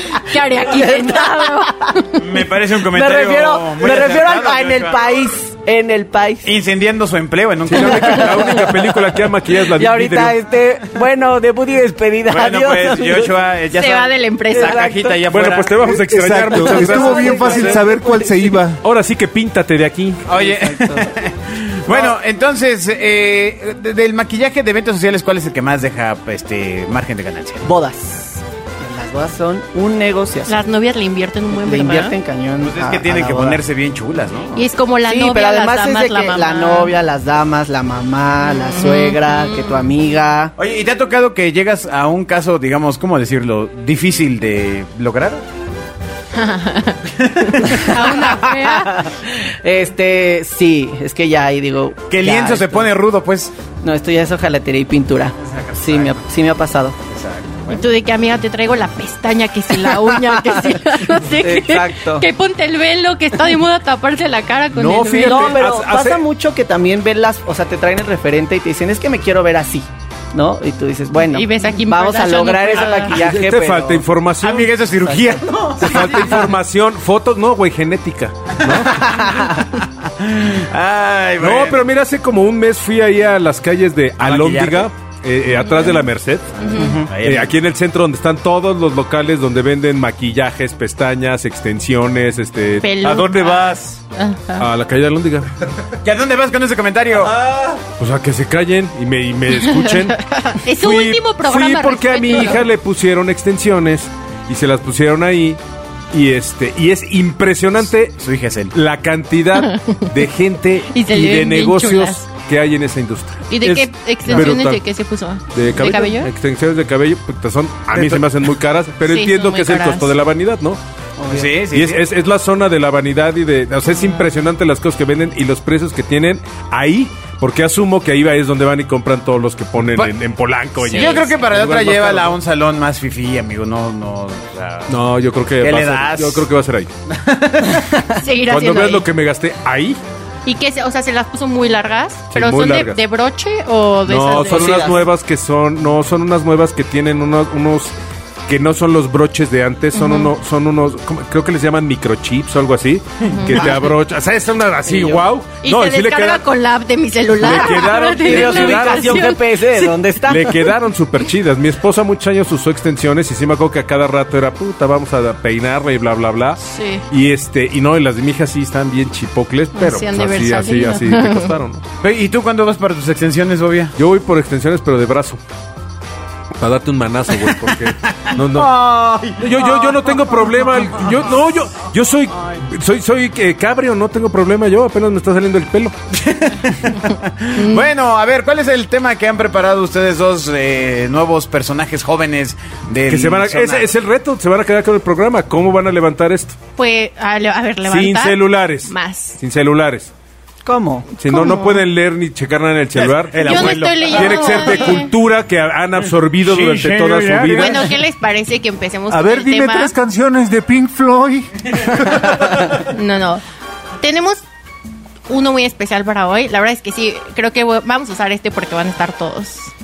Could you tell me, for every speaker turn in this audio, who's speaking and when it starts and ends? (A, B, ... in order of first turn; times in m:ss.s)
0:00.1-0:02.2 A
0:00.1-0:02.1 B
0:02.2-0:05.1 C
0:02.9-0:06.5 B
0:06.4-0:08.6 C
0:07.7-0:10.4 D
0:08.2-0:08.6 B
0:09.7-0:13.3 B
0:12.3-0:15.8 C
0:13.7-0:14.8 A
0:14.5-0:15.2 B
0:15.3-0:17.8 D
0:15.8-0:18.8 E
0:16.5-0:18.6 B
0:18.8-0:20.2 D
0:20.2-0:27.6 C
0:20.3-0:21.1 B
0:21.9-0:22.1 B
0:27.6-0:30.6 B
0:30.5-0:32.2 A
0:31.5-0:33.6 B
0:32.6-0:34.6 C
0:34.5-0:36.9 A
0:35.1-0:40.5 B
0:38.4-0:39.9 A
0:40.6-0:45.4 C
0:46.3-0:47.0 A
0:47.1-0:48.1 C
0:47.7-0:52.9 B
0:47.7-0:49.0 A
0:52.1-0:53.5 C
0:53.8-0:57.0 B
0:55.4-0:56.2 C
0:57.1-0:57.9 C
0:57.7-1:05.6 A
1:01.4-1:02.3 B
1:04.7-1:06.2 D
1:05.2-1:14.0 B
1:11.2-1:13.2 A
1:13.1-1:14.7 D
1:14.4-1:16.4 C
1:15.0-1:16.4 B
1:15.8-1:19.2 D
1:18.7-1:19.3 C
1:19.0-1:19.5 B
1:19.8-1:21.8 C
1:21.4-1:26.5 D
1:24.2-1:24.9 C
1:25.6-1:25.9 A
1:26.6-1:27.0 A
1:26.8-1:27.1 B
1:26.8-1:27.5 C
1:27.1-1:34.0 D
1:32.8-1:34.6 A
1:34.6-1:35.5 D
1:36.0-1:37.4 C
1:37.4-1:37.8 E
1:38.0-1:45.6 D
1:39.8-1:42.6 A
1:46.1-1:54.8 D
1:48.2-1:48.7 C
1:49.6-1:50.0 A
1:50.9-1:52.2 A
1:53.5-1:56.3 A
1:55.5-2:00.8 D
1:57.9-1:58.2 C
1:59.0-2:00.1 A
2:01.2-2:01.6 B
2:01.3-2:02.0 C
2:01.7-2:12.4 D
2:10.8-2:11.3 A
2:10.8-2:14.9 C
2:14.9-2:16.9 D
2:15.6-2:16.4 C
2:17.1-2:18.0 C
2:18.1-2:19.0 A
2:18.4-2:20.0 D
2:20.4-2:24.8 A
2:22.3-2:23.0 D
2:24.1-2:27.9 D
2:24.3-2:25.0 B
2:28.5-2:36.4 D
2:29.9-2:30.3 A
2:33.2-2:33.7 A
2:35.6-2:40.0 A
2:37.4-2:39.3 D
2:38.2-2:40.6 B
2:40.2-2:51.8 D
2:46.6-2:47.0 A
2:49.8-2:51.5 A
2:52.0-2:53.9 C
2:54.0-2:55.4 D
2:56.6-2:58.8 D
2:58.3-3:00.2 C
2:59.4-3:05.9 D
3:06.1-3:13.9 C
3:07.6-3:07.9 A
3:13.1-3:16.6 D
3:16.8-3:19.4 A
3:17.9-3:20.1 D
3:20.6-3:21.1 B
3:21.2-3:27.9 D
3:21.3-3:21.8 A
3:23.0-3:25.0 C
3:23.4-3:25.1 A
3:26.4-3:28.0 C
3:27.5-3:29.9 A
3:29.1-3:32.7 E
3:32.8-3:33.4 A
3:34.0-3:34.4 A
3:35.3-3:39.7 A